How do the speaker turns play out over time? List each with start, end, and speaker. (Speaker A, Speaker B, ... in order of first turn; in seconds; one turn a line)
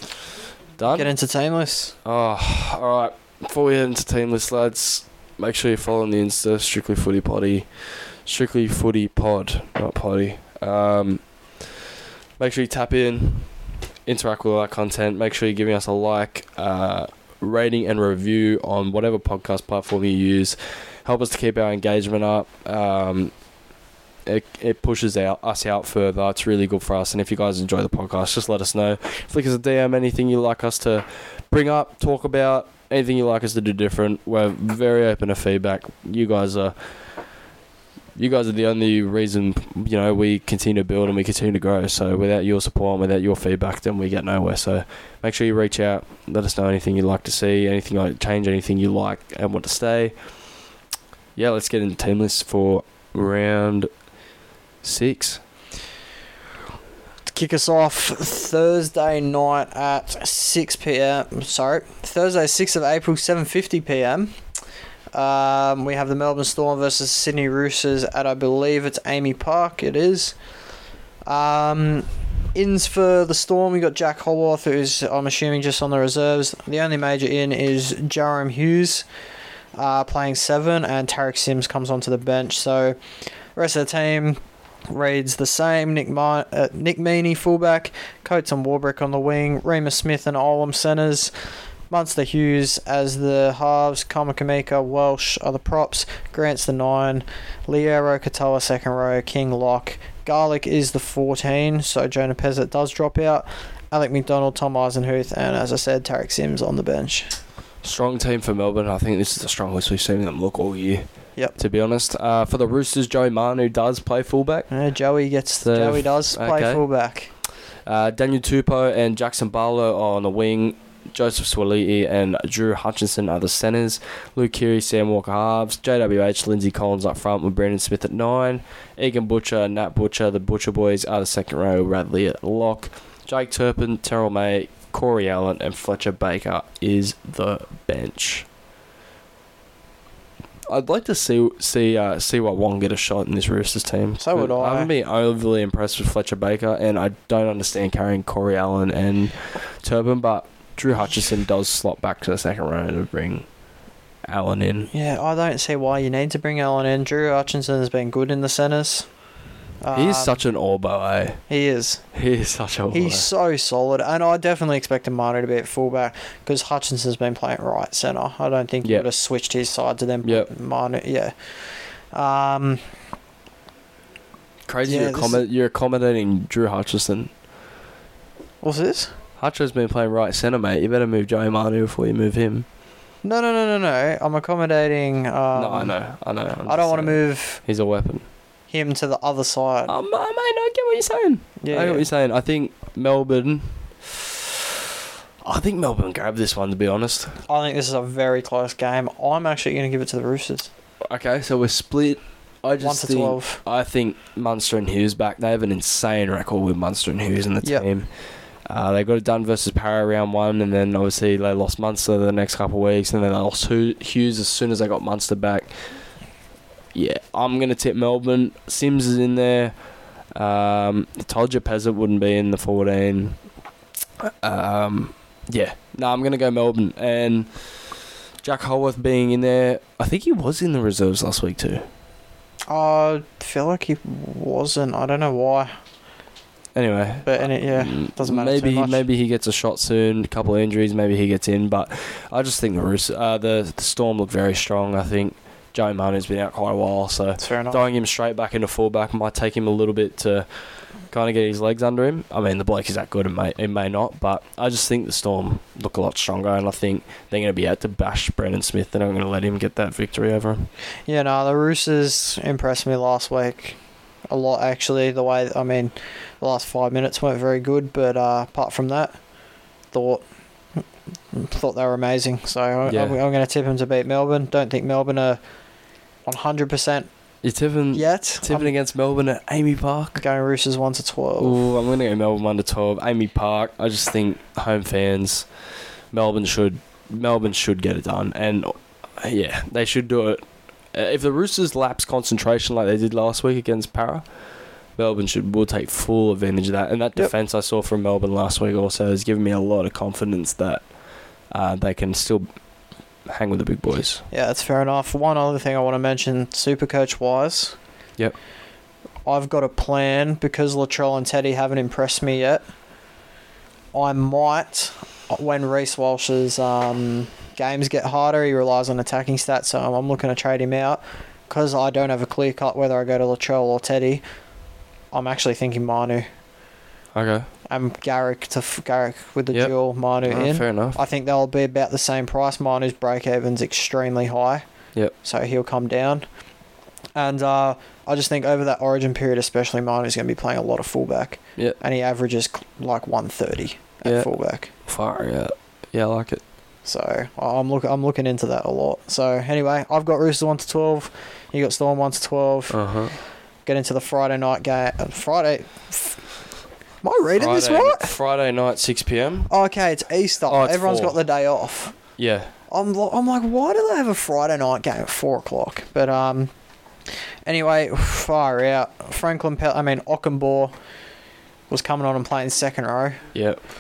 Speaker A: 0.8-1.1
Speaker B: 0.9-1.9
Speaker A: 2.0-11.7
Speaker A: 12.4-23.3
Speaker A: 24.3-36.8
Speaker A: 38.2-50.1
Speaker A: 51.4-53.9
Speaker A: 54.8-55.4
Speaker B: 57.3-64.4
Speaker B: 65.1-70.4
Speaker B: 71.2-79.1
Speaker B: 79.8-83.0
Speaker B: 83.5-91.3
Speaker B: 91.9-107.4
Speaker A: 107.8-111.0
Speaker A: 111.6-114.7
Speaker B: 114.7-117.3
Speaker A: 115.6-116.8
Speaker A: 117.8-138.5
Speaker A: 140.7-153.5
Speaker B: 144.2-144.9
Speaker A: 154.3-154.9
Speaker B: 154.9-159.1
Speaker B: 159.8-160.4
Speaker A: 159.9-161.4
Speaker B: 161.5-162.0
Speaker A: 162.1-163.3
Speaker B: 162.9-172.8
Speaker A: 170.2-170.5
Speaker A: 174.7-177.3
Speaker B: 174.9-175.4
Speaker B: 178.6-179.1
Speaker A: 179.4-182.7
Speaker B: 183.2-185.9
Speaker A: 185.6-188.3
Speaker B: 186.7-187.6
Speaker B: 188.7-189.9
Speaker A: 189.9-194.4
Speaker B: 191.6-192.1
Speaker A: 195.4-197.4
Speaker B: 197.5-200.7
Speaker A: 201.1-208.1
Speaker B: 202.8-203.6
Speaker A: 208.7-215.7
Speaker A: 216.9-219.8
Speaker A: 220.3-223.4
Speaker A: 224.2-227.7
Speaker A: 228.4-231.9
Speaker B: 232.7-235.7
Speaker A: 236.8-250.5
Speaker B: 237.2-239.0
Speaker B: 247.4-247.8
Speaker A: 251.1-260.7
Speaker B: 261.1-263.8
Speaker B: 264.3-269.2
Speaker B: 269.9-270.2
Speaker B: 271.3-275.4
Speaker A: 272.9-273.2
Speaker B: 276.2-277.1
Speaker A: 277.4-280.2
Speaker B: 277.9-278.7
Speaker B: 280.2-281.6
Speaker A: 281.4-285.5
Speaker A: 286.1-294.2
Speaker A: 295.0-300.9
Speaker A: 301.5-302.5
Speaker A: 303.3-304.2
Speaker B: 304.3-307.8
Speaker B: 309.3-312.6
Speaker B: 313.9-324.2
Speaker B: 325.1-326.3
Speaker A: 327.1-327.5
Speaker B: 327.7-334.6
Speaker A: 330.2-331.0
Speaker B: 335.2-336.2
Speaker B: 337.1-344.7
Speaker A: 344.9-346.4
Speaker B: 346.9-352.8
Speaker A: 352.7-353.2
Speaker B: 353.7-356.3
Speaker B: 357.0-358.1
Speaker A: 357.4-359.5
Speaker B: 359.5-362.0
Speaker A: 360.5-361.2
Speaker A: 362.2-362.5
Speaker B: 362.7-366.5
Speaker B: 367.4-370.7
Speaker B: 371.7-373.2
Speaker A: 373.4-373.6